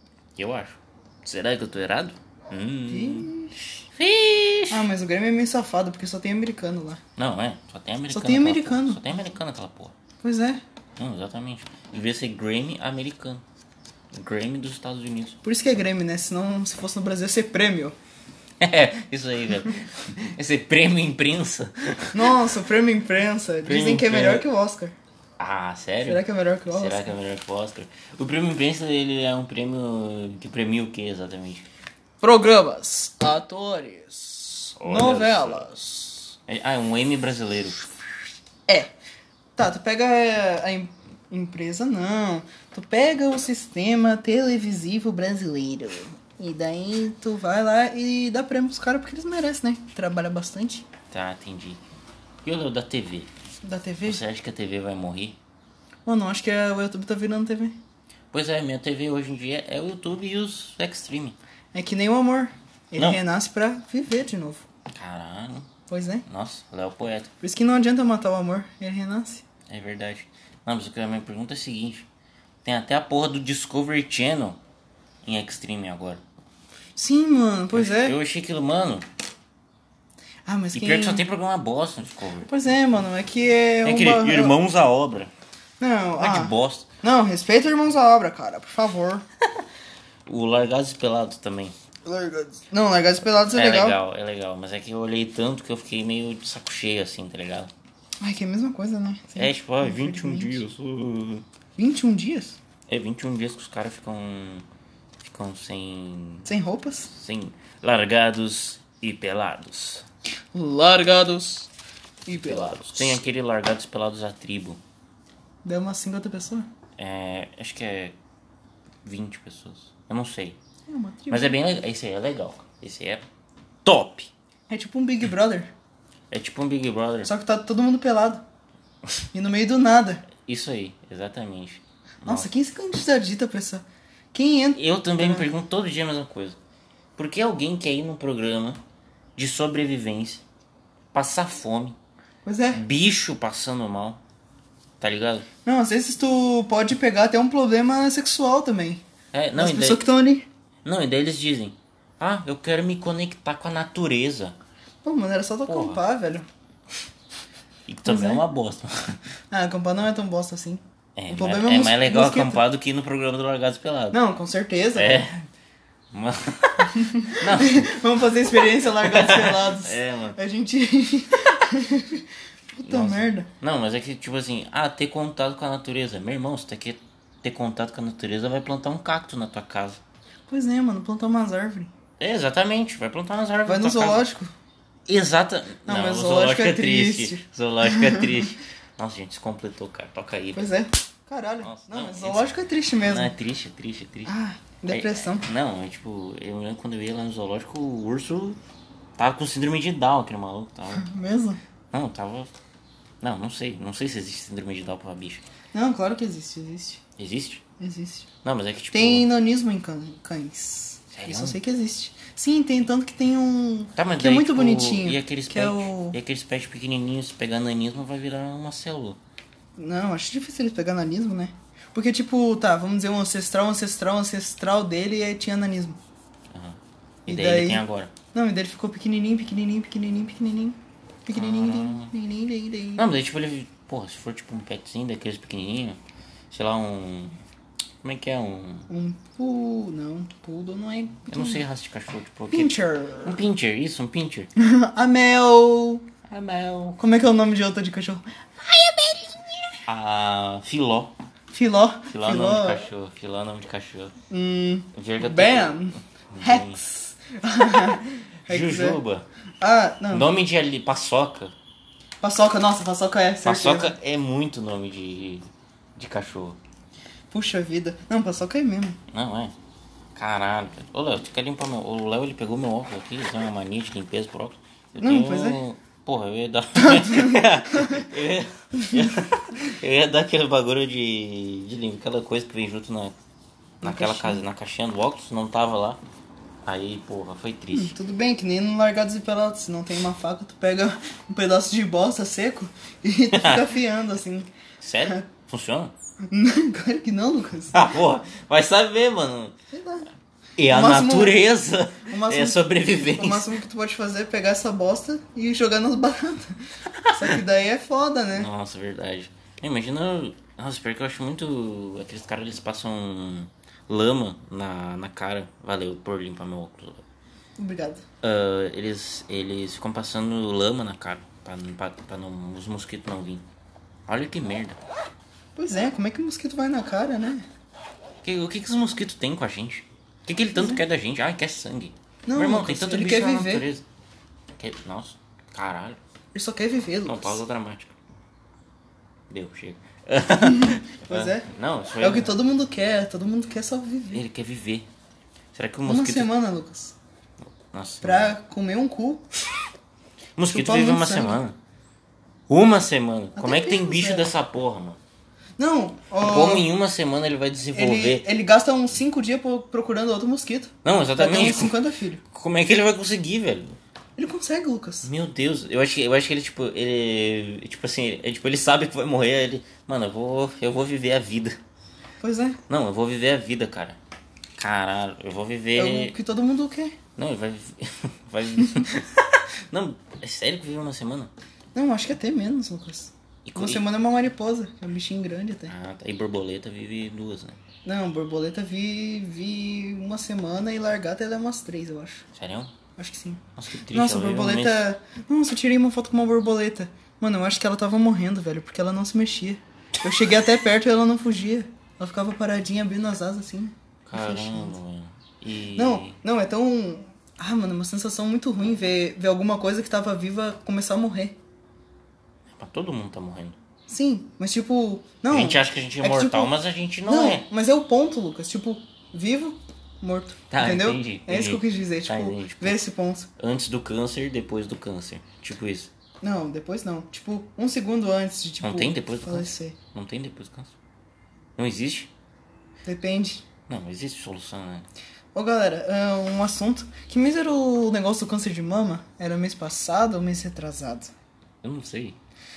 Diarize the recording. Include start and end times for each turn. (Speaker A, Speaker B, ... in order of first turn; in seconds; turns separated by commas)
Speaker A: 0.4-3.3, Speaker B: 2.9-3.5, Speaker A: 3.9-4.9, Speaker B: 4.7-7.0, Speaker A: 7.2-9.9, Speaker B: 8.1-9.0, Speaker B: 10.2-10.6, Speaker A: 11.0-13.4, Speaker A: 14.1-15.4, Speaker B: 15.4-18.0, Speaker A: 18.6-22.5, Speaker B: 22.1-24.9, Speaker A: 23.6-24.5, Speaker A: 25.4-31.7, Speaker B: 26.1-27.1, Speaker B: 32.2-36.3, Speaker A: 34.8-35.7, Speaker A: 36.5-37.9, Speaker B: 38.7-38.9, Speaker B: 39.6-50.9, Speaker A: 51.1-51.8, Speaker A: 52.4-53.3, Speaker B: 53.6-54.2, Speaker A: 54.0-55.4, Speaker B: 56.0-57.8, Speaker A: 58.3-61.4, Speaker B: 61.7-64.7, Speaker A: 64.9-65.7, Speaker B: 65.9-66.2, Speaker A: 66.3-67.3, Speaker B: 67.4-69.4, Speaker A: 69.7-72.1, Speaker A: 72.7-74.6, Speaker A: 75.2-76.2, Speaker B: 77.0-78.2, Speaker A: 77.7-79.1, Speaker B: 80.5-81.2, Speaker A: 80.7-82.5, Speaker B: 82.5-84.6, Speaker A: 83.8-85.3, Speaker B: 85.8-89.2, Speaker A: 86.2-86.9, Speaker A: 90.3-91.7, Speaker B: 92.0-94.0, Speaker A: 93.5-97.7, Speaker B: 98.2-100.6, Speaker A: 99.3-101.4, Speaker B: 101.8-102.6, Speaker A: 102.9-104.7, Speaker A: 105.2-106.5, Speaker B: 106.5-107.1, Speaker A: 107.1-110.0, Speaker B: 110.5-111.7, Speaker B: 112.3-113.2, Speaker A: 112.3-114.8, Speaker B: 115.6-116.7, Speaker A: 117.0-118.2, Speaker A: 119.0-120.6, Speaker B: 120.9-121.6, Speaker A: 121.3-123.2, Speaker A: 123.8-124.3, Speaker B: 124.7-125.7, Speaker A: 126.3-127.3, Speaker B: 127.2-128.4, Speaker B: 129.3-130.2, Speaker A: 130.4-132.5, Speaker B: 132.3-135.5, Speaker A: 134.8-136.6, Speaker A: 137.2-138.8, Speaker A: 139.4-140.4, Speaker A: 141.1-142.0, Speaker B: 142.4-142.8, Speaker A: 142.7-144.2, Speaker A: 145.0-145.5, Speaker B: 145.7-149.0, Speaker A: 149.3-150.1, Speaker B: 149.6-150.5, Speaker A: 150.8-154.6, Speaker B: 155.0-156.5, Speaker A: 155.7-156.0, Speaker A: 157.9-159.2, Speaker B: 158.1-158.4, Speaker B: 159.5-162.6, Speaker A: 161.2-164.2, Speaker B: 164.1-165.2, Speaker A: 164.9-165.5, Speaker A: 166.1-168.0, Speaker B: 166.9-173.5, Speaker A: 168.8-170.4, Speaker A: 172.9-180.0, Speaker B: 180.5-181.9, Speaker A: 182.2-184.3, Speaker B: 183.7-184.5, Speaker A: 185.1-190.7, Speaker B: 185.9-188.5, Speaker B: 190.6-193.3, Speaker A: 191.6-194.3, Speaker B: 194.3-195.5, Speaker A: 194.9-198.6, Speaker A: 199.2-201.1, Speaker B: 200.9-201.6, Speaker A: 201.9-202.5, Speaker A: 203.2-205.4, Speaker B: 205.7-207.0, Speaker A: 207.2-207.6, Speaker B: 207.8-208.3, Speaker A: 208.4-209.3, Speaker B: 208.9-216.2, Speaker A: 211.1-211.6, Speaker A: 214.0-219.2, Speaker B: 219.8-226.0, Speaker A: 226.5-228.1, Speaker B: 227.3-233.1, Speaker A: 231.3-232.1, Speaker A: 233.0-236.0, Speaker A: 236.5-237.4, Speaker A: 238.0-238.9, Speaker B: 238.9-241.6, Speaker A: 241.3-244.5, Speaker B: 242.5-243.4, Speaker B: 244.6-246.1, Speaker A: 246.3-247.0, Speaker B: 247.0-249.7, Speaker A: 249.9-251.1, Speaker B: 251.5-252.8, Speaker A: 252.1-254.1, Speaker B: 254.3-259.0, Speaker A: 254.9-256.8, Speaker A: 258.5-259.3, Speaker B: 259.6-260.3, Speaker A: 260.1-261.5, Speaker B: 262.2-264.0, Speaker A: 263.4-266.6, Speaker B: 267.3-269.0, Speaker A: 269.1-269.5, Speaker A: 270.2-283.2, Speaker B: 275.0-275.6, Speaker B: 276.8-278.0, Speaker B: 278.8-279.1, Speaker A: 283.8-286.0, Speaker B: 283.8-284.4, Speaker A: 286.6-287.9, Speaker B: 287.7-294.5, Speaker A: 293.3-293.7, Speaker A: 294.8-295.9, Speaker B: 296.3-297.8, Speaker A: 297.7-299.6, Speaker B: 299.7-300.1, Speaker A: 300.6-303.5, Speaker B: 300.7-301.4, Speaker B: 302.1-308.5, Speaker A: 306.9-307.4, Speaker A: 308.4-317.0, Speaker B: 317.6-318.0, Speaker A: 318.2-323.4, Speaker A: 324.1-324.8, Speaker B: 325.6-327.5, Speaker A: 328.2-333.8, Speaker B: 330.6-330.8, Speaker B: 332.3-333.7, Speaker A: 334.6-336.0, Speaker B: 336.3-337.4, Speaker A: 337.1-337.9, Speaker A: 339.3-342.4, Speaker B: 340.4-341.5, Speaker B: 342.0-344.2, Speaker A: 344.1-344.9, Speaker A: 345.5-346.3, Speaker B: 345.9-347.0, Speaker A: 347.6-348.3, Speaker B: 348.0-349.2, Speaker A: 350.4-351.6, Speaker B: 350.5-351.4, Speaker A: 352.5-355.0, Speaker B: 353.4-354.3, Speaker B: 355.6-356.7, Speaker A: 356.2-358.3, Speaker B: 357.7-362.2, Speaker A: 360.8-361.8, Speaker A: 362.3-363.8, Speaker B: 364.2-365.1, Speaker A: 365.0-371.6, Speaker B: 372.2-372.6, Speaker A: 372.7-374.0, Speaker A: 374.6-376.1, Speaker B: 375.8-377.0, Speaker A: 377.2-381.3, Speaker B: 381.8-385.7, Speaker A: 383.4-383.8, Speaker A: 385.7-387.6, Speaker B: 387.9-392.2, Speaker A: 392.3-392.7, Speaker B: 393.0-404.8, Speaker A: 393.6-394.8, Speaker A: 404.1-406.2, Speaker B: 405.8-411.4, Speaker A: 412.6-413.6, Speaker B: 413.9-416.6, Speaker A: 415.3-417.5, Speaker B: 417.1-423.3, Speaker A: 420.5-422.9, Speaker A: 423.4-425.9, Speaker B: 426.2-429.8, Speaker A: 428.6-430.8, Speaker A: 431.6-432.1, Speaker B: 432.8-433.4, Speaker A: 433.7-434.9, Speaker B: 435.3-441.1, Speaker A: 441.6-442.2